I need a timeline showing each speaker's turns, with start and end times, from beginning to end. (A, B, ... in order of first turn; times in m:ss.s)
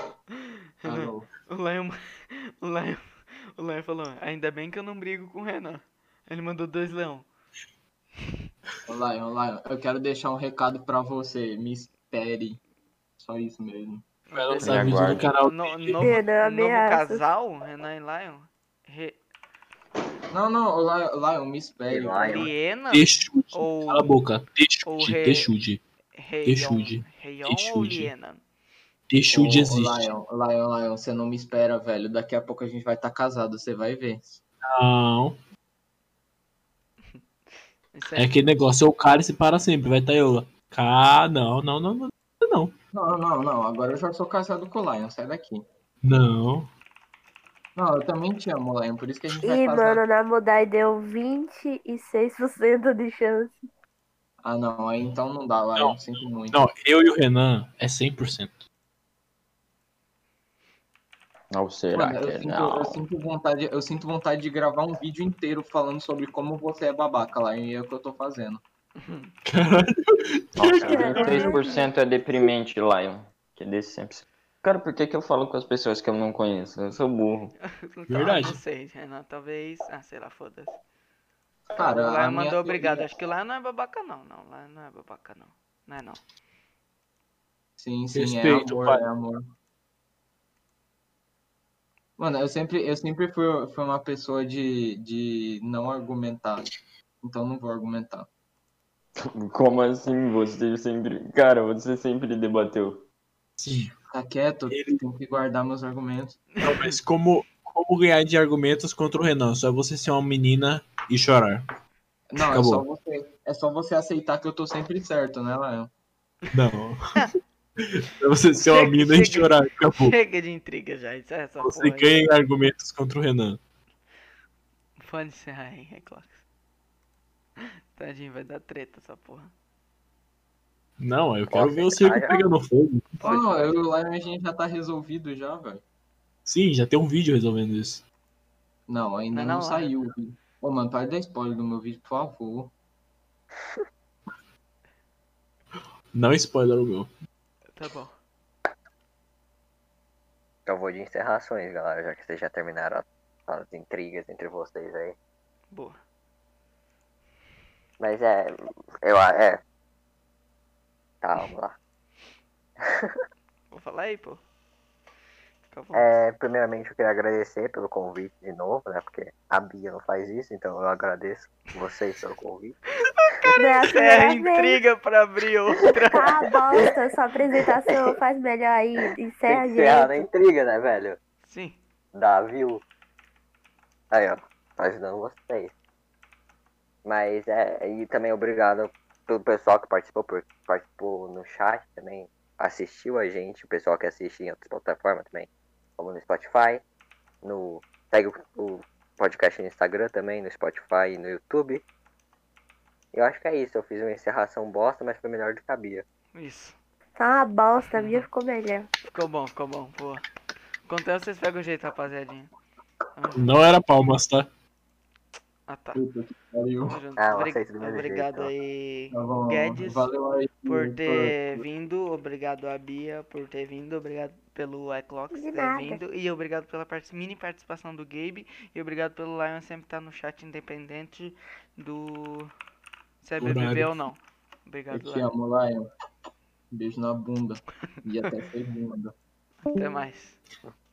0:00.3-0:07.3 A
0:00.8-0:01.3 B
0:08.9-0:12.6 B
0:13.2-0:14.0 B
0:14.3-0:19.2 A
0:14.3-0:16.0 C
0:14.6-0:15.3 D
0:16.0-0:17.2 E
0:20.3-0:22.5 B
0:21.9-0:22.5 F
0:22.2-0:24.2 A
0:22.9-0:25.8 C
0:24.8-0:25.5 A
0:26.2-0:28.4 A
0:26.4-0:28.1 C
0:29.1-0:30.1 C
0:29.3-0:34.4 B
0:34.6-0:35.4 C
0:37.9-0:38.7 A
0:38.1-0:42.7 C
0:42.9-0:45.6 B
0:46.0-0:46.7 C
0:47.8-0:50.0 B
0:49.4-0:53.6 E
0:54.4-0:56.6 B
0:56.5-0:58.6 C
1:01.5-1:03.0 D
1:01.9-1:08.6 B
1:09.0-1:09.3 A
1:09.4-1:11.6 C
1:10.6-1:17.5 D
1:10.8-1:11.9 E
1:17.6-1:20.8 A
1:18.1-1:18.6 C
1:21.7-1:23.1 B
1:21.8-1:26.2 A
1:27.8-1:29.4 B
1:28.1-1:29.0 C
1:32.2-1:36.7 B
1:37.2-1:38.3 B
1:39.2-1:43.0 D
1:43.6-1:43.9 C
1:44.1-1:46.5 B
1:44.7-1:45.0 C
1:46.6-1:47.0 A
1:46.6-1:51.6 C
1:52.3-1:55.9 B
1:52.4-1:52.8 C
1:56.5-1:57.2 C
1:57.8-2:00.2 C
1:58.6-2:02.1 A
2:01.6-2:03.6 C
2:05.0-2:06.4 A
2:07.6-2:09.5 A
2:11.0-2:13.3 C
2:11.5-2:12.4 F
2:13.2-2:13.9 A
2:13.2-2:15.8 B
2:16.4-2:18.0 C
2:18.9-2:22.7 B
2:19.3-2:20.0 A
2:26.1-2:27.1 C
2:27.7-2:28.1 A
2:30.6-2:35.2 F
2:35.7-2:36.0 A
2:38.0-2:39.6 F
2:41.2-2:41.8 F
2:42.8-2:43.2 F
2:43.7-2:44.4 A
2:45.7-2:46.1 A
2:45.9-2:52.8 F
2:53.2-2:56.4 A
2:53.5-2:54.8 E
2:56.1-3:00.2 E
2:59.5-3:01.2 F
3:01.4-3:01.8 A
3:02.1-3:02.8 F
3:04.1-3:05.7 F
3:07.0-3:16.8 F
3:17.4-3:21.8 F
3:23.1-3:26.0 F
3:26.3-3:26.8 A
3:27.2-3:28.9 E
3:27.8-3:28.3 A
3:29.1-3:30.2 A
3:30.8-3:32.5 A
3:33.2-3:33.6 A
3:33.4-3:34.5 C
3:35.7-3:36.0 A
3:35.9-3:37.0 B
3:36.8-3:40.1 A
3:37.2-3:38.5 F
3:39.1-3:41.6 B
3:40.6-3:52.5 A
3:45.3-3:46.0 E
3:53.2-3:55.3 A
3:53.4-3:54.0 C
3:54.9-3:55.8 B
3:56.7-3:59.1 B
3:59.6-4:00.4 A